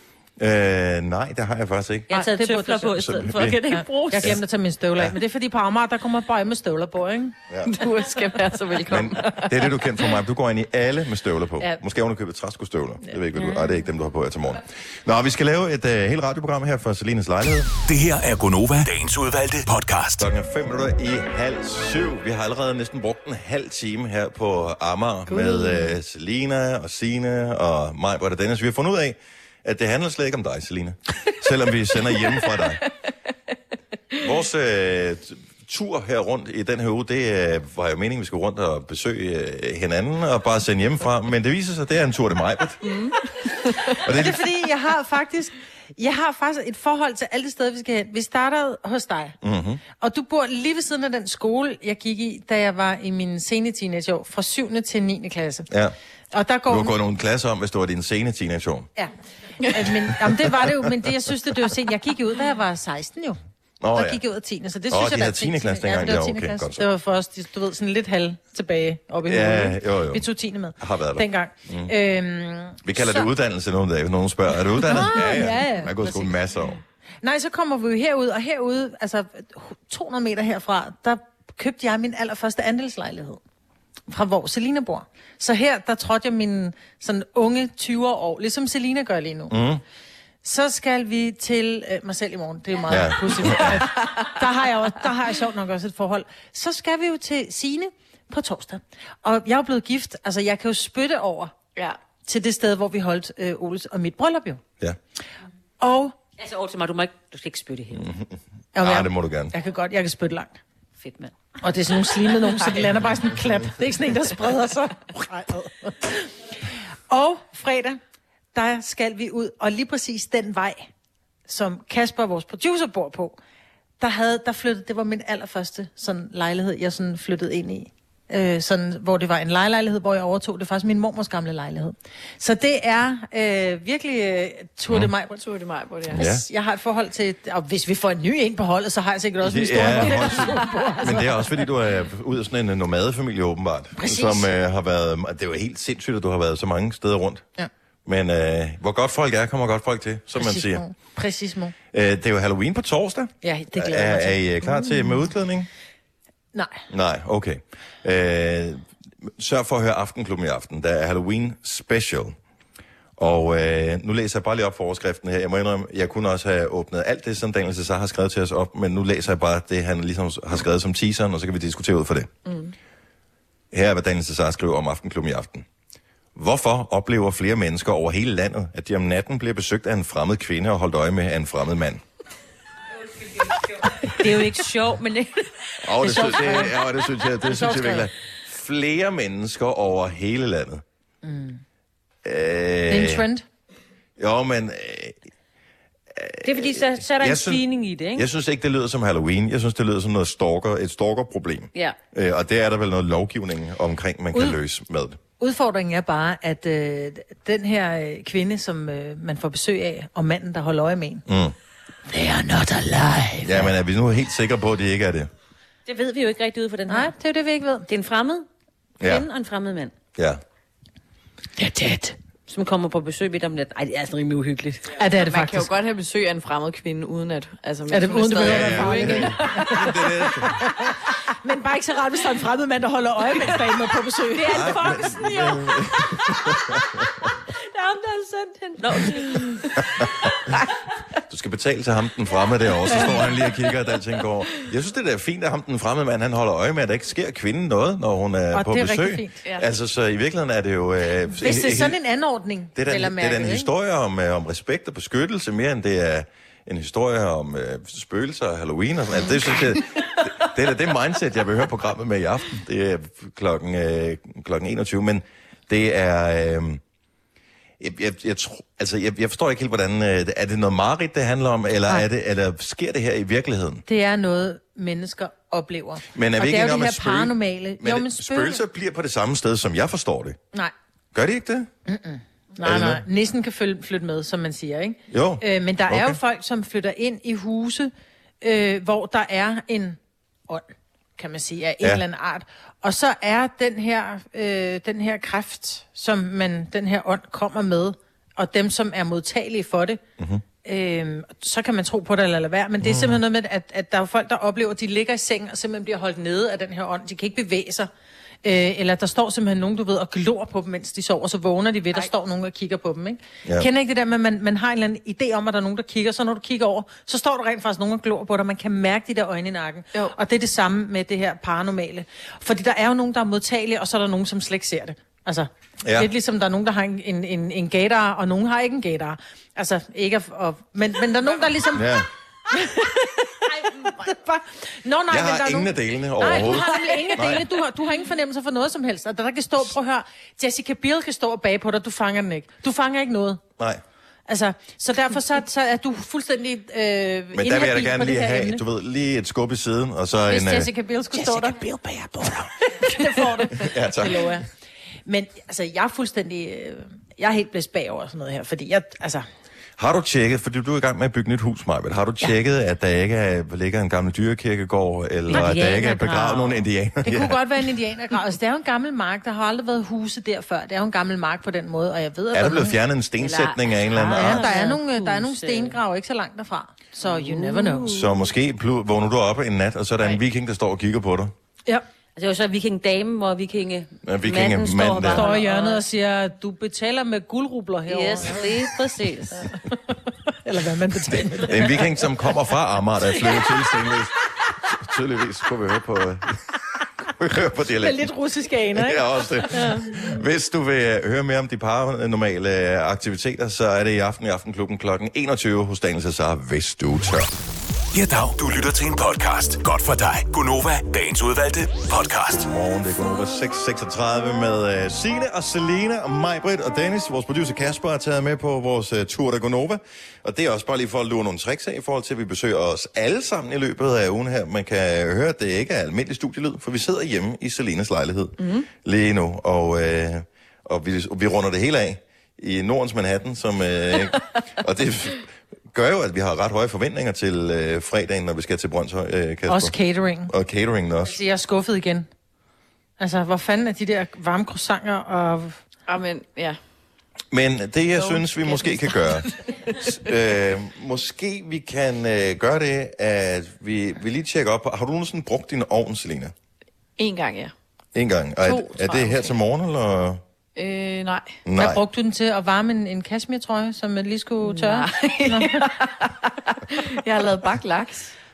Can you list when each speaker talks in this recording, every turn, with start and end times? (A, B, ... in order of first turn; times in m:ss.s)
0:00.4-0:02.2 A
0:02.1-0:03.0 B
0:02.1-0:04.4 C
0:02.9-0:03.6 A
0:03.7-0:07.3 B
0:07.5-0:07.7 A
0:07.6-0:09.8 D
0:08.9-0:17.7 A
0:13.1-0:13.6 B
0:17.8-0:20.3 E
0:20.2-0:32.8 A
0:25.3-0:25.9 D
0:34.2-0:42.8 A
0:42.8-0:44.0 D
0:44.0-0:44.4 A
0:44.1-0:49.4 B
0:49.4-0:49.8 A
0:49.9-0:55.7 B
0:55.7-0:55.9 A
0:56.3-0:56.9 B
0:56.7-0:58.9 A
0:59.0-1:03.4 B
1:00.2-1:00.9 A
1:03.8-1:04.2 A
1:03.9-1:13.3 B
1:04.9-1:06.8 A
1:09.2-1:10.2 A
1:10.8-1:11.9 A
1:12.8-1:16.8 A
1:14.8-1:16.3 B
1:17.2-1:23.4 B
1:24.1-1:29.5 B
1:29.5-1:29.8 A
1:30.4-1:41.5 B
1:32.9-1:33.9 A
1:42.2-1:44.6 B
1:45.8-1:46.1 B
1:46.4-1:48.1 C
1:47.9-1:49.5 A
1:48.7-1:50.6 B
1:51.0-1:51.3 C
1:51.6-1:58.0 B
1:52.3-1:52.7 D
1:58.5-2:00.9 B
2:01.5-2:03.4 B
2:04.0-2:15.4 B
2:15.3-2:16.2 D
2:16.1-2:16.4 A
2:16.2-2:21.5 B
2:19.4-2:27.4 A
2:20.0-2:20.9 D
2:24.0-2:24.5 B
2:28.0-2:30.8 A
2:30.4-2:31.7 B
2:31.9-2:35.7 A
2:33.4-2:34.4 B
2:36.5-2:36.8 B
2:36.9-2:42.4 A
2:43.2-2:52.3 A
2:52.5-2:52.7 D
2:53.7-2:55.6 A
2:56.3-3:02.0 A
3:04.0-3:05.5 C
3:05.8-3:10.8 A
3:06.0-3:06.8 B
3:06.1-3:06.4 C
3:07.4-3:08.0 B
3:11.2-3:11.6 B
3:12.2-3:13.2 A
3:12.9-3:13.4 B
3:14.2-3:15.2 A
3:16.1-3:17.6 A
3:16.4-3:18.3 C
3:18.1-3:25.2 A
3:25.4-3:31.2 B
3:31.3-3:31.5 A
3:32.1-3:33.7 C
3:33.4-3:35.3 A
3:35.8-3:37.1 C
3:36.9-3:37.9 B
3:37.9-3:38.4 C
3:39.0-3:39.9 C
3:40.2-3:40.4 A
3:41.6-3:42.1 B
3:42.5-3:44.9 C
3:45.0-3:45.7 B
3:45.2-3:49.9 D
3:47.9-3:55.6 B
3:48.4-3:50.6 A
3:54.5-3:57.3 A
3:54.5-3:55.4 C
3:57.8-3:58.8 B
3:58.8-3:59.6 C
4:01.3-4:12.0 A
4:08.5-4:09.4 B
4:11.4-4:13.7 B
4:12.7-4:26.8 A
4:19.2-4:19.6 D
4:27.8-4:33.8 A
4:33.8-4:38.6 B
4:36.1-4:40.4 A
4:41.1-4:41.7 A
4:41.9-4:50.0 B
4:42.6-4:43.0 A
4:45.1-4:46.2 A
4:50.5-5:00.0 B
5:00.2-5:00.4 A
5:00.6-5:07.9 B
5:02.8-5:03.2 A
5:08.4-5:31.9 B
5:25.8-5:26.1 A
5:31.7-5:32.1 A
5:32.5-5:43.4 B
5:35.1-5:37.4 A
5:44.3-5:48.6 B
5:47.3-5:50.7 A
5:50.3-5:51.6 B
5:52.2-5:52.5 A
5:52.8-5:54.5 B
5:53.5-5:54.4 A
5:55.1-5:59.2 B
5:59.8-6:07.4 A
6:05.3-6:06.6 C
6:07.0-6:12.8 B
6:12.3-6:14.5 A
6:13.2-6:15.8 C
6:14.1-6:17.9 B
6:17.0-6:18.1 C
6:17.9-6:21.3 A
6:22.2-6:25.8 C
6:24.0-6:25.2 A
6:25.1-6:28.5 B
6:27.9-6:29.5 C
6:30.4-6:31.8 B
6:31.1-6:34.2 A
6:34.7-6:36.3 A
6:37.2-6:38.1 A
6:37.8-6:40.0 B
6:38.7-6:47.3 A
6:47.9-6:52.4 E
6:52.3-7:19.7 A
7:08.4-7:08.7 D
7:19.5-7:20.3 B
7:20.3-7:21.2 A
7:21.0-7:22.1 B
7:23.0-7:25.6 B
7:25.9-7:26.6 D
7:27.3-7:36.3 A
7:27.9-7:29.7 D
7:37.0-7:37.5 D
7:37.9-7:40.2 A
7:38.4-7:39.3 D
7:40.6-7:41.4 D
7:41.4-7:41.8 A
7:41.6-7:45.6 B
7:44.4-7:48.1 D